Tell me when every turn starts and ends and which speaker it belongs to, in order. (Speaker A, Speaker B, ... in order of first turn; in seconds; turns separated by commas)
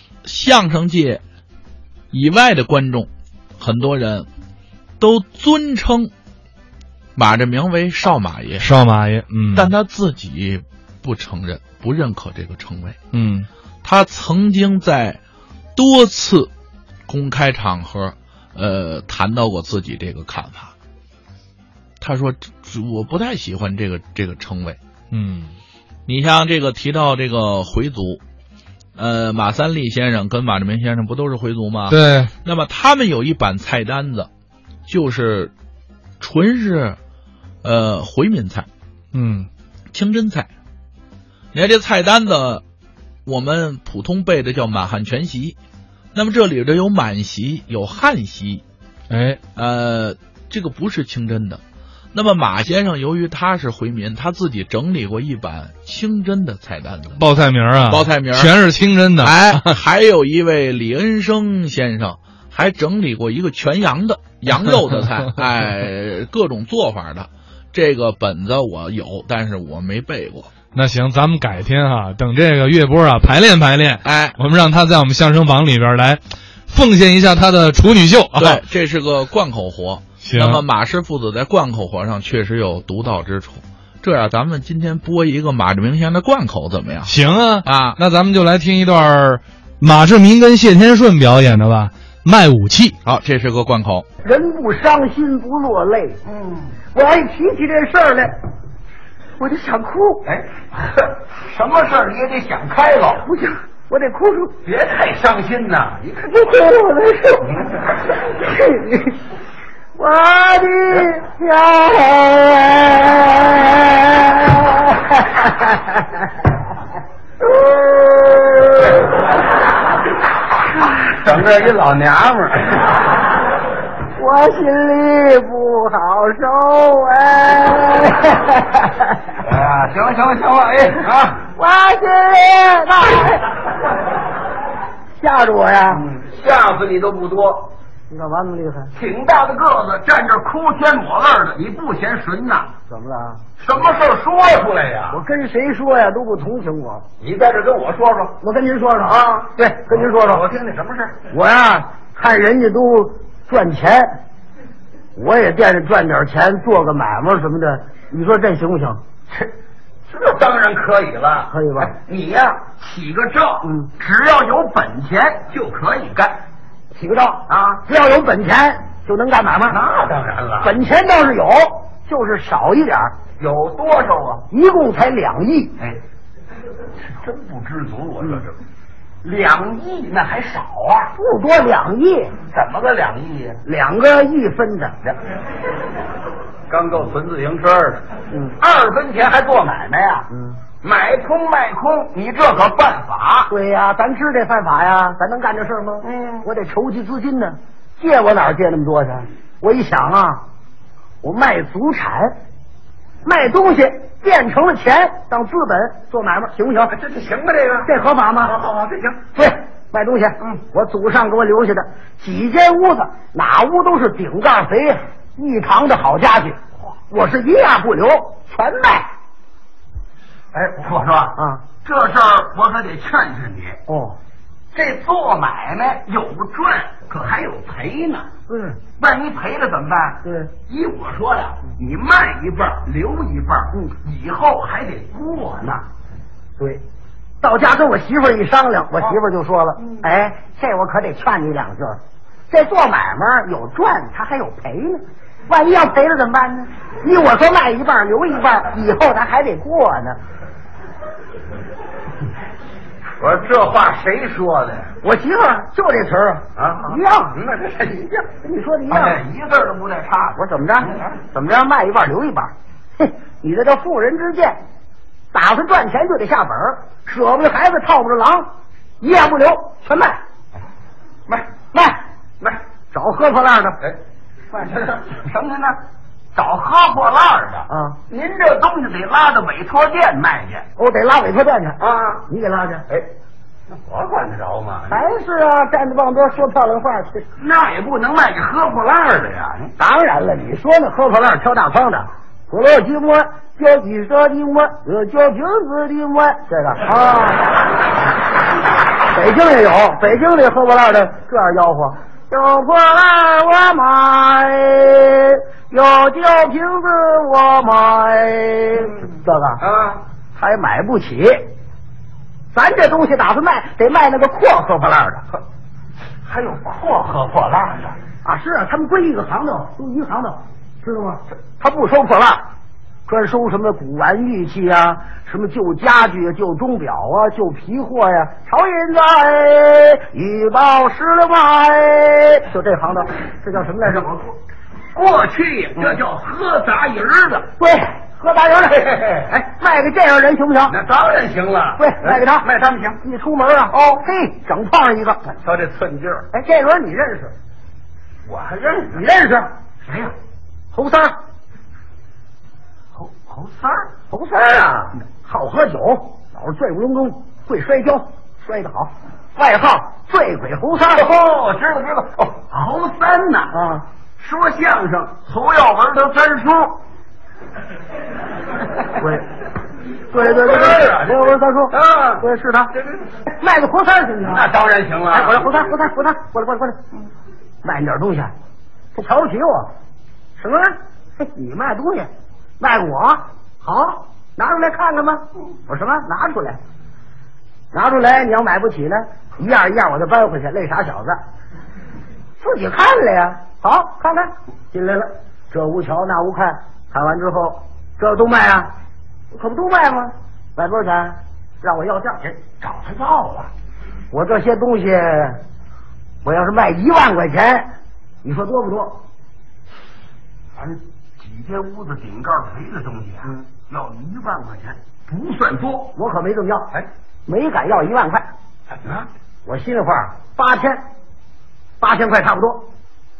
Speaker A: 0.2-1.2, Speaker A: 2.1-4.3, Speaker A: 5.0-6.1, Speaker A: 7.1-8.7, Speaker B: 8.6-9.7, Speaker A: 9.5-13.0, Speaker B: 13.1-13.5, Speaker A: 13.8-15.2, Speaker A: 15.8-16.5, Speaker A: 17.1-20.7, Speaker A: 22.0-24.8, Speaker B: 25.1-25.5, Speaker A: 26.1-28.2, Speaker A: 28.9-34.3, Speaker B: 31.9-32.3, Speaker A: 34.9-35.5, Speaker A: 36.2-37.0, Speaker A: 37.6-38.7, Speaker B: 39.1-39.5, Speaker A: 39.9-40.5, Speaker A: 41.5-42.6, Speaker A: 43.2-45.5, Speaker A: 46.1-48.6, Speaker B: 49.1-49.4, Speaker A: 49.5-51.6, Speaker A: 52.1-57.2, Speaker B: 57.2-59.8, Speaker A: 57.9-58.6, Speaker A: 59.2-70.5, Speaker B: 70.7-78.6, Speaker A: 74.0-74.4, Speaker A: 78.3-88.0, Speaker B: 80.2-80.6, Speaker B: 87.1-93.0, Speaker A: 93.0-94.0, Speaker C: 94.2-96.2, Speaker D: 96.2-96.7, Speaker C: 96.9-98.3, Speaker C: 99.4-100.2, Speaker D: 100.2-103.3, Speaker C: 103.2-104.5, Speaker D: 104.6-106.2, Speaker C: 106.2-107.5, Speaker D: 107.4-107.9, Speaker C: 108.0-109.2, Speaker C: 110.0-116.1, Speaker C: 117.4-119.0, Speaker D: 121.1-123.0, Speaker C: 124.2-129.2, Speaker D: 129.4-131.4, Speaker C: 131.5-133.5, Speaker C: 135.2-136.0, Speaker D: 135.9-137.7, Speaker C: 138.1-138.9, Speaker D: 138.9-142.7, Speaker C: 142.9-143.4, Speaker D: 143.6-145.2, Speaker C: 145.1-147.0, Speaker D: 147.2-148.4, Speaker C: 148.4-150.4, Speaker D: 149.1-151.2, Speaker C: 151.3-154.2, Speaker C: 155.2-159.0, Speaker D: 160.1-166.4, Speaker C: 161.5-161.9, Speaker C: 166.9-169.8, Speaker D: 167.5-167.8, Speaker D: 169.7-170.8, Speaker C: 170.6-173.1, Speaker D: 173.4-174.4, Speaker C: 174.5-175.8, Speaker D: 177.1-178.6, Speaker D: 179.2-181.1, Speaker C: 181.2-182.3, Speaker D: 182.5-183.6, Speaker C: 183.6-184.9, Speaker D: 186.7-188.0, Speaker D: 188.6-190.3, Speaker C: 190.3-190.6, Speaker D: 190.8-193.5, Speaker C: 193.5-200.4, Speaker D: 196.0-196.4, Speaker C: 201.2-202.3, Speaker C: 203.2-206.9, Speaker D: 206.9-207.9, Speaker C: 207.8-208.6, Speaker D: 208.4-209.2, Speaker C: 209.3-219.1, Speaker D: 220.5-223.8, Speaker C: 221.3-221.6, Speaker C: 223.9-224.2, Speaker D: 224.7-228.3, Speaker C: 228.5-228.8, Speaker D: 229.0-235.8, Speaker C: 230.2-230.5, Speaker C: 237.4-242.0, Speaker C: 242.5-250.2, Speaker D: 253.2-254.9, Speaker C: 255.0-257.4, Speaker D: 256.6-258.2, Speaker C: 258.3-259.2, Speaker D: 258.9-261.1, Speaker C: 260.4-264.6, Speaker C: 265.3-268.5, Speaker C: 269.0-270.2, Speaker C: 271.7-272.0, Speaker C: 272.9-273.8, Speaker D: 274.5-275.8, Speaker D: 276.3-280.6, Speaker C: 277.7-278.0, Speaker C: 280.8-282.9, Speaker D: 281.8-282.2, Speaker D: 283.7-285.1, Speaker C: 284.9-287.3, Speaker D: 287.4-289.7, Speaker C: 289.8-297.5, Speaker C: 299.1-309.6, Speaker D: 309.6-310.0, Speaker C: 310.4-311.5, Speaker C: 312.5-315.2, Speaker D: 316.2-318.0, Speaker C: 318.2-322.4, Speaker C: 323.1-334.3, Speaker D: 334.9-337.5, Speaker C: 337.6-340.8, Speaker D: 338.7-339.3, Speaker D: 340.7-343.0, Speaker C: 341.8-342.5, Speaker C: 343.0-345.2, Speaker D: 345.3-346.2, Speaker C: 346.3-347.3, Speaker D: 348.2-349.0, Speaker C: 348.9-349.5, Speaker D: 349.8-350.1, Speaker C: 350.7-351.2, Speaker D: 352.9-353.9, Speaker C: 354.1-361.1, Speaker D: 360.9-363.6, Speaker C: 363.5-363.8, Speaker D: 364.2-366.8, Speaker C: 369.0-369.3, Speaker C: 370.1-372.7, Speaker D: 370.1-373.0, Speaker C: 373.3-374.5, Speaker D: 374.3-375.5, Speaker C: 375.1-376.8, Speaker C: 377.6-378.3, Speaker C: 378.9-379.7, Speaker C: 380.4-386.6, Speaker C: 387.7-391.2, Speaker C: 392.4-398.7, Speaker C: 399.3-402.2, Speaker D: 402.4-403.5, Speaker C: 404.1-405.4, Speaker C: 406.2-407.7, Speaker C: 408.2-409.0, Speaker D: 410.6-415.9, Speaker C: 415.9-416.7, Speaker C: 417.3-418.3, Speaker D: 418.7-419.1, Speaker C: 419.4-420.8, Speaker C: 421.8-422.7